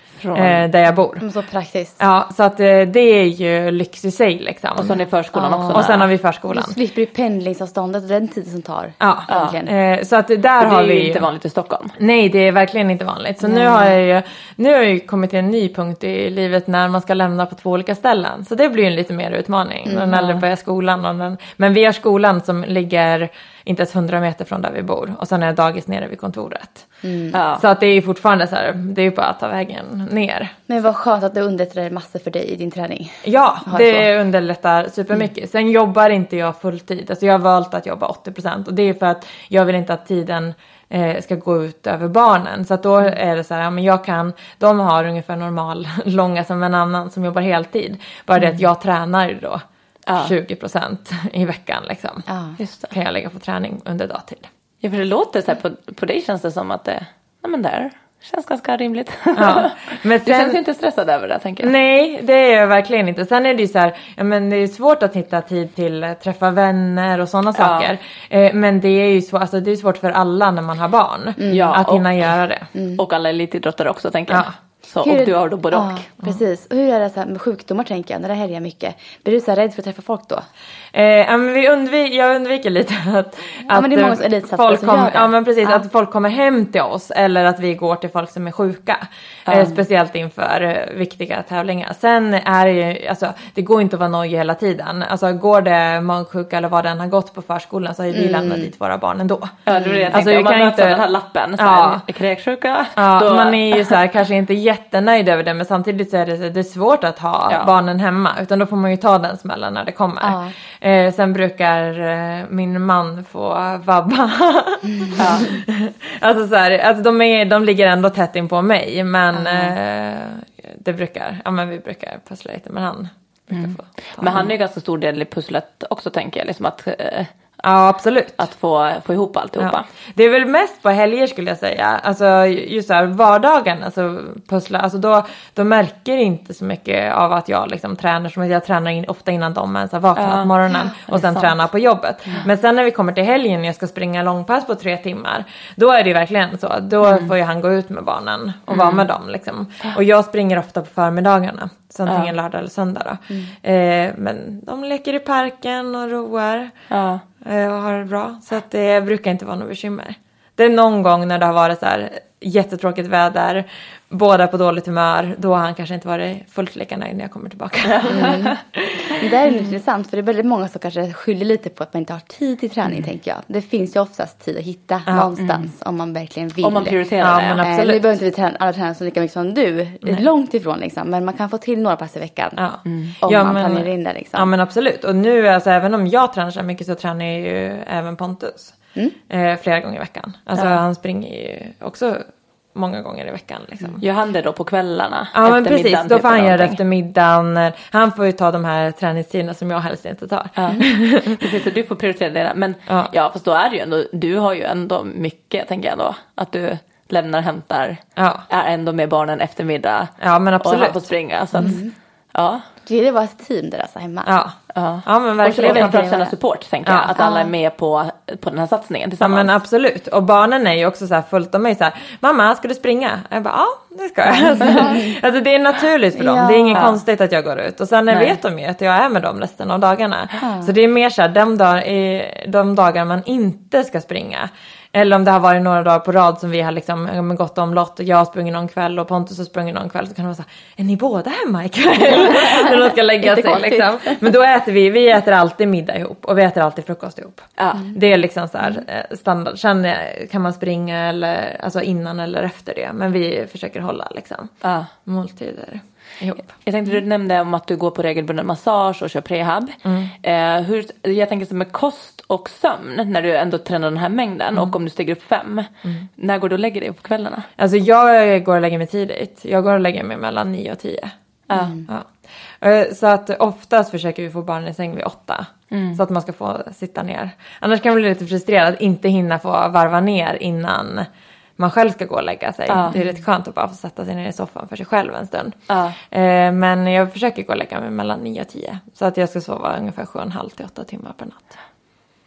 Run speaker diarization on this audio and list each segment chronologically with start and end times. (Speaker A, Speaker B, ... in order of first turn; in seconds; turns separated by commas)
Speaker A: 0.2-0.6, Speaker B: 0.3-1.2, Speaker C: 1.2-2.0, Speaker B: 2.0-5.0, Speaker A: 4.8-6.1, Speaker C: 5.3-5.9, Speaker B: 5.7-6.8, Speaker C: 6.5-9.7, Speaker B: 9.0-11.3, Speaker A: 9.3-9.6, Speaker A: 10.6-11.9, Speaker B: 12.0-26.9, Speaker C: 13.4-13.9, Speaker A: 20.1-20.4, Speaker C: 27.0-27.4, Speaker A: 27.3-27.6, Speaker B: 27.5-30.5, Speaker C: 30.7-34.1, Speaker B: 33.2-49.6, Speaker A: 50.1-50.3, Speaker B: 50.2-52.3, Speaker C: 52.3-52.5, Speaker A: 52.6-52.9, Speaker B: 52.9-54.5, Speaker A: 54.8-61.7, Speaker B: 59.4-60.6, Speaker B: 61.6-72.7, Speaker A: 67.5-67.9, Speaker C: 71.4-71.7, Speaker A: 71.5-72.0, Speaker C: 72.7-73.0, Speaker A: 73.0-76.0, Speaker C: 75.0-80.5, Speaker B: 80.9-99.6, Speaker C: 83.7-85.8, Speaker A: 89.5-89.8, Speaker C: 98.1-98.7, Speaker A: 99.7-103.9, Speaker C: 99.7-100.1, Speaker B: 100.1-101.0, Speaker B: 101.6-102.0, Speaker B: 103.0-124.5, Speaker C: 110.2-110.5, Speaker A: 115.2-115.5, Speaker C: 119.3-119.7, Speaker A: 123.5-127.3, Speaker B: 127.6-128.4, Speaker A: 128.4-129.8, Speaker B: 129.6-156.7, Speaker A: 140.2-140.5, Speaker A: 141.1-141.5, Speaker A: 148.7-149.0, Speaker A: 152.1-152.3, Speaker A: 156.9-157.2, Speaker B: 157.4-169.2, Speaker A: 167.9-168.6, Speaker C: 168.1-168.6, Speaker C: 169.2-177.0, Speaker A: 176.6-177.6, Speaker B: 177.2-178.1, Speaker C: 177.6-182.6, Speaker B: 182.6-188.8, Speaker A: 182.8-183.2, Speaker C: 183.2-184.5, Speaker B: 189.3-194.0, Speaker A: 194.0-196.8, Speaker B: 195.3-201.4, Speaker A: 200.6-200.8, Speaker A: 201.4-211.8, Speaker B: 208.2-208.4, Speaker B: 210.2-211.1, Speaker C: 211.6-211.9, Speaker A: 212.3-212.6, Speaker C: 212.8-214.3, Speaker B: 214.2-216.0, Speaker A: 214.7-219.5, Speaker C: 215.4-216.3, Speaker B: 216.8-217.1, Speaker C: 217.2-217.5, Speaker B: 219.2-254.5, Speaker C: 224.4-225.1, Speaker C: 226.2-226.9, Speaker A: 228.1-228.4, Speaker C: 230.4-230.7, Speaker C: 242.2-244.2, Speaker A: 247.6-247.9, Speaker A: 254.6-254.9, Speaker B: 255.1-256.5, Speaker A: 256.6-267.5, Speaker B: 259.8-260.1, Speaker B: 267.6-271.1, Speaker C: 271.5-271.9, Speaker B: 271.9-285.6, Speaker A: 275.7-276.0, Speaker A: 282.7-283.0, Speaker C: 282.9-283.2, Speaker A: 285.7-286.0, Speaker B: 286.1-291.6